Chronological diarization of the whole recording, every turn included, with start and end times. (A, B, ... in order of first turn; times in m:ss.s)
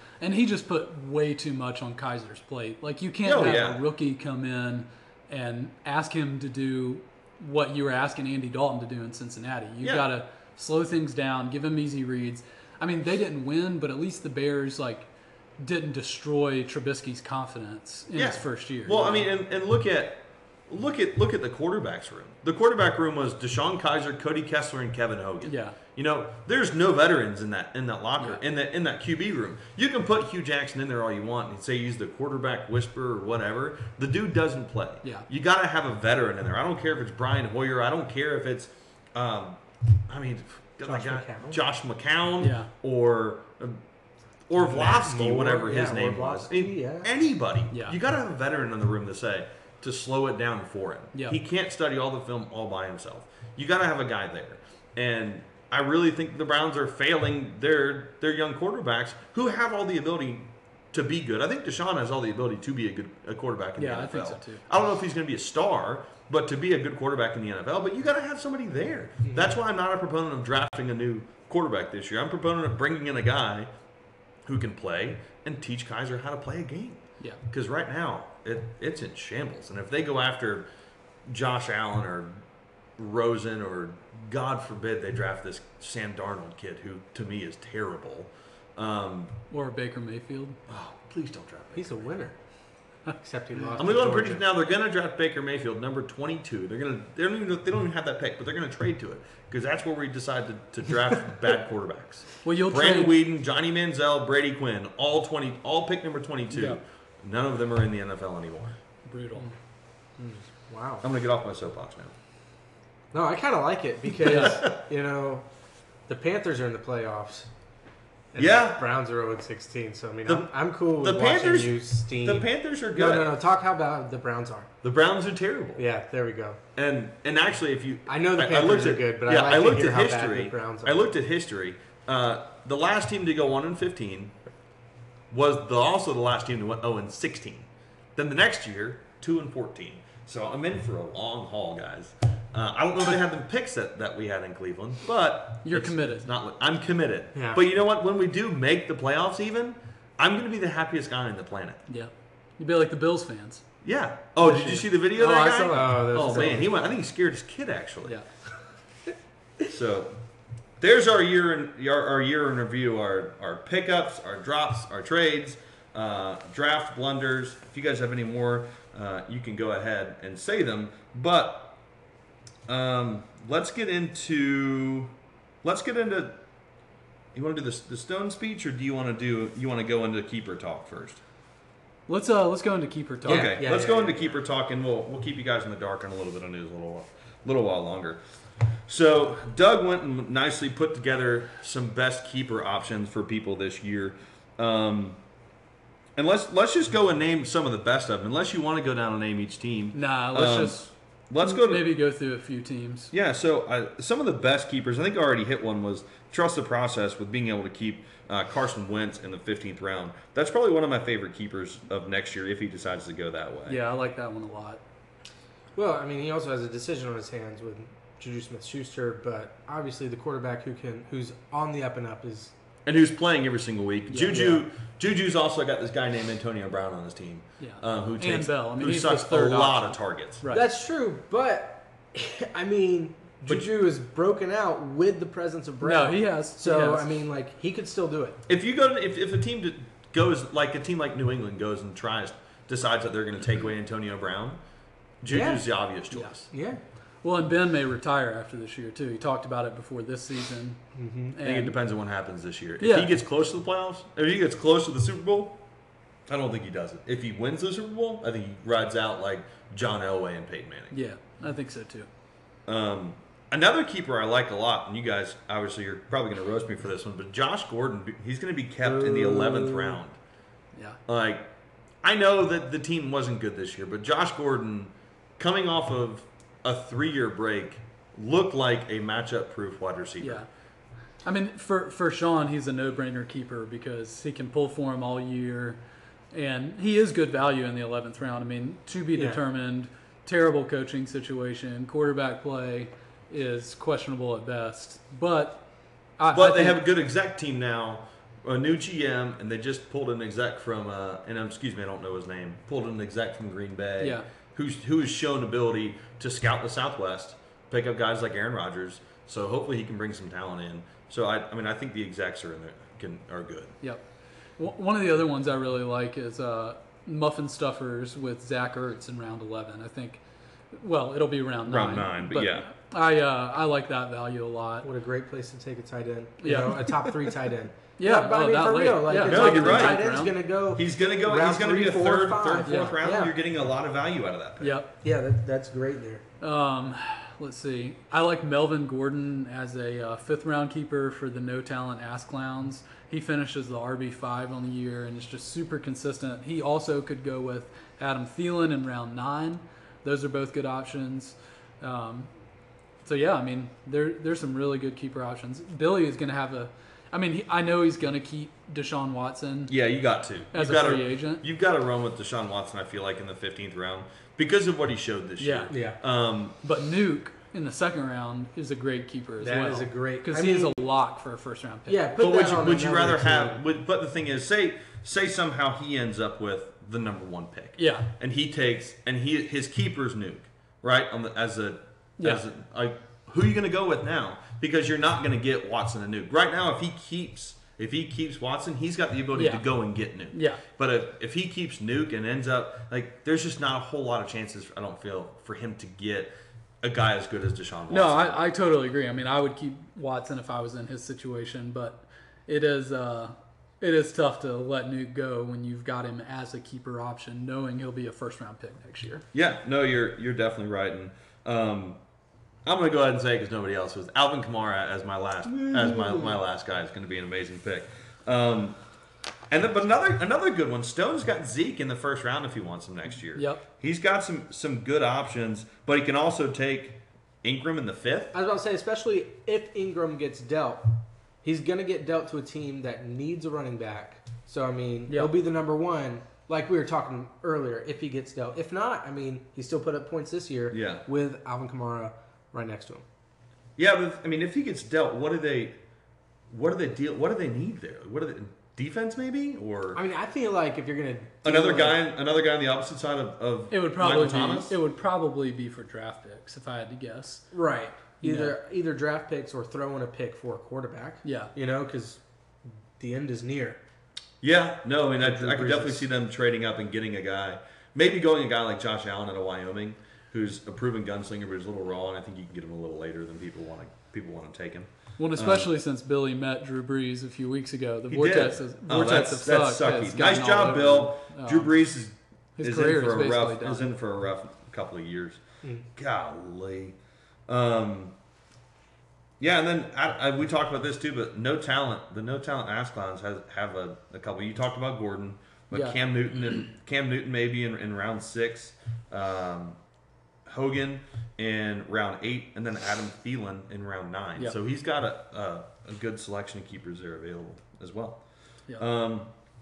0:00.2-0:19.3 A
0:03.2-0:03.8 B
0:18.1-0:43.8 B
0:25.4-0:25.8 A
0:40.8-0:41.6 C
0:42.4-0:42.7 A
0:44.5-1:13.7 B
0:44.6-0:47.1 C
1:03.8-1:04.6 A
1:09.2-1:09.5 C
1:14.4-1:20.7 B
1:21.3-1:22.4 B
1:23.0-1:29.4 B
1:29.5-1:30.6 A
1:30.7-1:32.1 B
1:31.7-1:32.4 C
1:33.1-1:34.4 C
1:33.8-1:48.8 B
1:42.4-1:43.2 A
1:46.5-1:46.8 A
1:49.0-1:49.5 A
1:50.2-1:51.0 C
1:51.0-1:52.1 B
1:53.1-1:55.5 C
1:54.2-1:54.6 A
1:54.3-1:54.8 B
1:56.1-1:57.5 C
1:58.3-2:04.7 C
1:58.4-1:58.8 B
2:00.2-2:03.3 B
2:04.8-2:05.8 B
2:05.8-2:06.6 C
2:06.8-2:14.3 B
2:08.1-2:11.1 C
2:15.3-2:31.8 B
2:25.6-2:26.3 A
2:27.3-2:27.6 C
2:31.9-2:33.6 A
2:33.8-2:38.2 B
2:34.4-2:34.8 C
2:34.4-2:36.7 A
2:35.7-2:36.7 C
2:39.7-2:40.2 B
2:40.8-2:51.8 B
2:52.7-2:56.4 B
2:57.3-3:01.2 B
3:02.1-3:03.6 A
3:03.2-3:04.4 C
3:03.2-3:08.2 B
3:08.9-3:15.2 B
3:16.2-3:21.9 B
3:19.9-3:23.1 A
3:23.1-3:33.8 B
3:33.7-3:34.8 A
3:35.7-3:42.5 C
3:42.8-3:50.4 B
3:44.1-3:44.4 A
3:44.1-3:44.6 C
3:47.6-3:50.6 A
3:50.5-3:58.4 C
3:55.8-3:57.0 A
3:58.5-4:04.6 B
4:05.2-4:06.5 B
4:05.3-4:05.6 C
4:06.5-4:06.8 C
4:07.2-4:11.8 A
4:10.9-4:11.4 C
4:11.4-4:15.6 B
4:12.8-4:13.1 A
4:16.3-4:20.9 B
4:20.9-4:22.1 A
4:22.7-4:30.2 B
4:28.8-4:30.0 C
4:31.1-4:31.5 B
4:32.0-4:40.4 B
4:40.2-4:40.5 A
4:41.2-4:45.8 A
4:46.3-4:55.6 A
4:49.1-4:49.4 C
4:56.2-4:56.8 A
4:56.3-5:13.7 B
5:04.0-5:04.2 A
5:14.6-5:24.9 A
5:21.6-5:22.7 B
5:24.8-5:33.3 C
5:26.4-5:27.3 A
5:28.0-5:30.4 A
5:29.2-5:30.0 B
5:30.7-5:34.8 B
5:32.6-5:33.0 A
5:34.6-5:34.9 A
5:35.0-5:36.2 C
5:36.4-5:52.3 A
5:53.0-5:59.7 A
5:59.7-6:06.6 B
6:00.5-6:01.4 A
6:05.4-6:05.8 A
6:05.7-6:06.0 C
6:06.6-6:12.0 A
6:09.4-6:10.8 C
6:11.9-6:13.6 C
6:12.2-6:38.4 B
6:17.8-6:18.1 A
6:29.3-6:29.6 A
6:30.3-6:30.6 A
6:37.9-6:49.2 A
6:49.3-6:52.0 B
6:52.6-6:58.8 B
6:55.6-6:56.4 C
6:59.5-7:08.3 B
7:03.3-7:03.6 A
7:08.3-7:23.0 C
7:20.7-7:21.0 B
7:23.8-7:25.8 B
7:26.5-7:30.0 B
7:29.9-7:32.0 C
7:31.4-7:34.7 B
7:33.7-7:37.5 A
7:37.5-7:42.2 C
7:38.2-7:38.6 A
7:41.2-7:41.5 A
7:43.0-7:43.8 C
7:44.4-7:55.7 B
7:45.2-7:46.0 C
7:55.2-8:01.7 A
7:58.1-8:05.4 B
8:02.6-8:03.9 A
8:05.6-8:05.9 C
8:05.9-8:07.0 B
8:07.5-8:08.1 B
8:09.4-8:19.8 B
8:15.7-8:16.0 A
8:20.5-8:28.2 B
8:28.8-8:29.3 B